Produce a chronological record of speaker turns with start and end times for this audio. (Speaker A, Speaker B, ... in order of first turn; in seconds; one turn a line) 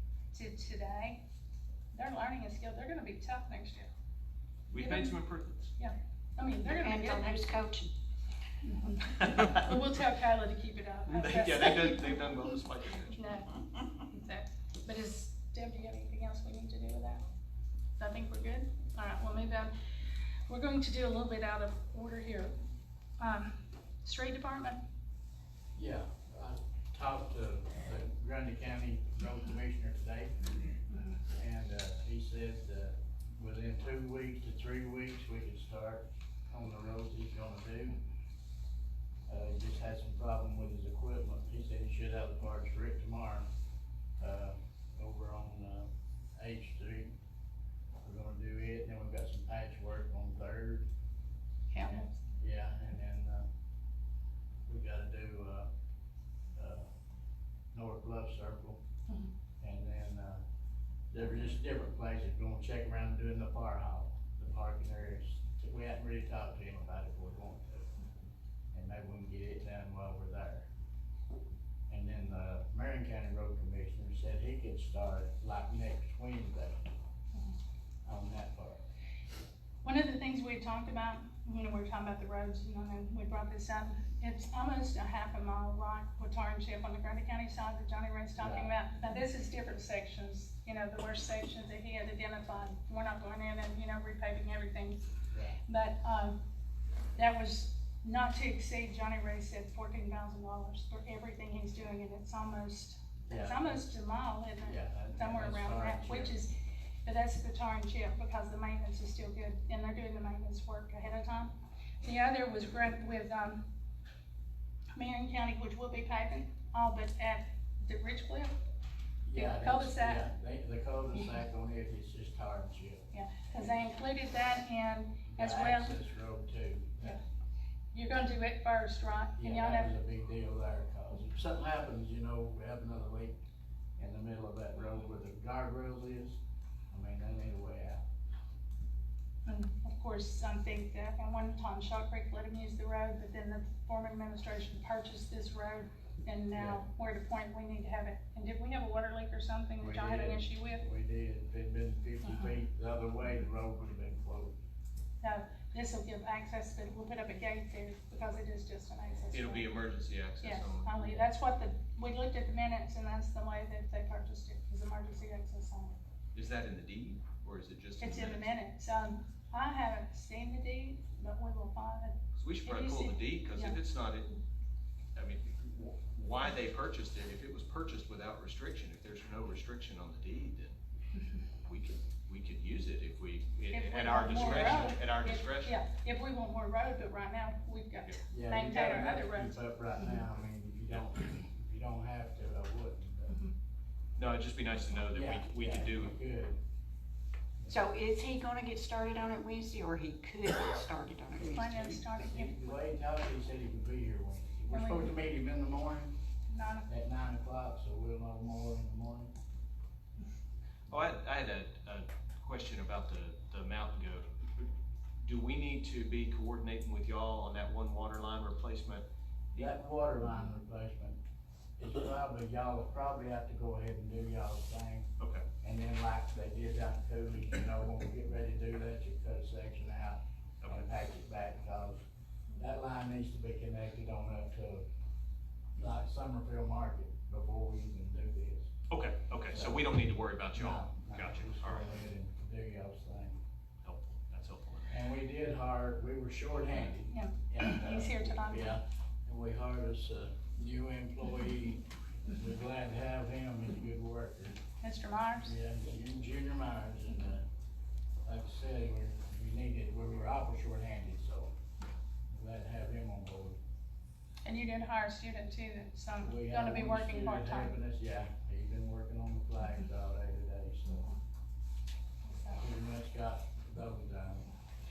Speaker A: 0.3-1.2
Speaker A: 1.9-3.9
Speaker B: 4.7-5.7
Speaker A: 4.8-5.2
Speaker A: 5.8-7.4
Speaker C: 6.6-7.9
Speaker A: 8.7-12.3
Speaker B: 9.2-9.6
Speaker B: 11.1-13.2
Speaker A: 13.2-17.2
Speaker A: 18.0-19.7
Speaker A: 20.5-22.6
Speaker A: 23.2-24.8
Speaker D: 25.8-30.6
Speaker D: 31.4-38.0
Speaker D: 39.3-43.5
Speaker D: 44.2-47.1
Speaker D: 48.0-50.9
Speaker A: 51.7-52.1
Speaker D: 51.9-53.5
Speaker D: 54.7-55.7
Speaker D: 56.6-56.9
Speaker D: 57.7-58.8
Speaker D: 59.6-60.4
Speaker D: 61.1-67.9
Speaker D: 68.7-70.7
Speaker D: 71.9-76.8
Speaker D: 78.0-78.8
Speaker A: 79.8-95.1
Speaker D: 88.4-88.8
Speaker D: 95.3-95.6
Speaker A: 95.7-96.4
Speaker A: 97.2-106.5
Speaker D: 103.3-103.8
Speaker D: 104.6-106.3
Speaker A: 107.1-113.6
Speaker A: 115.0-118.5
Speaker D: 119.2-123.1
Speaker A: 119.3-120.3
Speaker A: 123.1-126.0
Speaker D: 125.3-127.2
Speaker A: 127.9-130.0
Speaker D: 129.4-133.4
Speaker D: 134.0-136.4
Speaker D: 136.9-138.0
Speaker A: 139.5-150.8
Speaker D: 146.5-146.8
Speaker D: 149.8-154.6
Speaker A: 155.2-159.7
Speaker B: 159.3-161.2
Speaker A: 160.4-166.0
Speaker B: 166.3-168.6
Speaker A: 168.0-172.1
Speaker B: 172.4-174.4
Speaker A: 172.7-173.8
Speaker B: 175.2-180.8
Speaker B: 181.7-185.8
Speaker A: 183.7-189.6
Speaker D: 184.4-184.9
Speaker D: 188.3-193.4
Speaker B: 194.2-196.2
Speaker D: 195.1-196.6
Speaker C: 197.7-202.0
Speaker A: 201.4-202.8
Speaker D: 202.2-206.1
Speaker A: 204.7-205.2
Speaker A: 206.5-206.9
Speaker D: 206.9-209.3
Speaker B: 210.9-214.7
Speaker B: 215.2-219.0
Speaker D: 219.5-221.2
Speaker D: 221.8-225.1
Speaker B: 225.2-225.4
Speaker D: 225.6-232.0
Speaker B: 230.6-230.9
Speaker D: 232.6-234.8
Speaker D: 235.8-238.7
Speaker B: 238.9-241.9
Speaker D: 239.5-239.8
Speaker D: 240.6-243.4
Speaker B: 243.8-244.9
Speaker D: 244.9-254.6
Speaker A: 247.1-248.8
Speaker A: 254.8-255.5
Speaker D: 255.4-257.4
Speaker D: 258.3-261.5
Speaker D: 262.3-263.6
Speaker A: 264.4-267.7
Speaker D: 266.2-271.1
Speaker A: 272.3-272.6
Speaker D: 272.5-274.5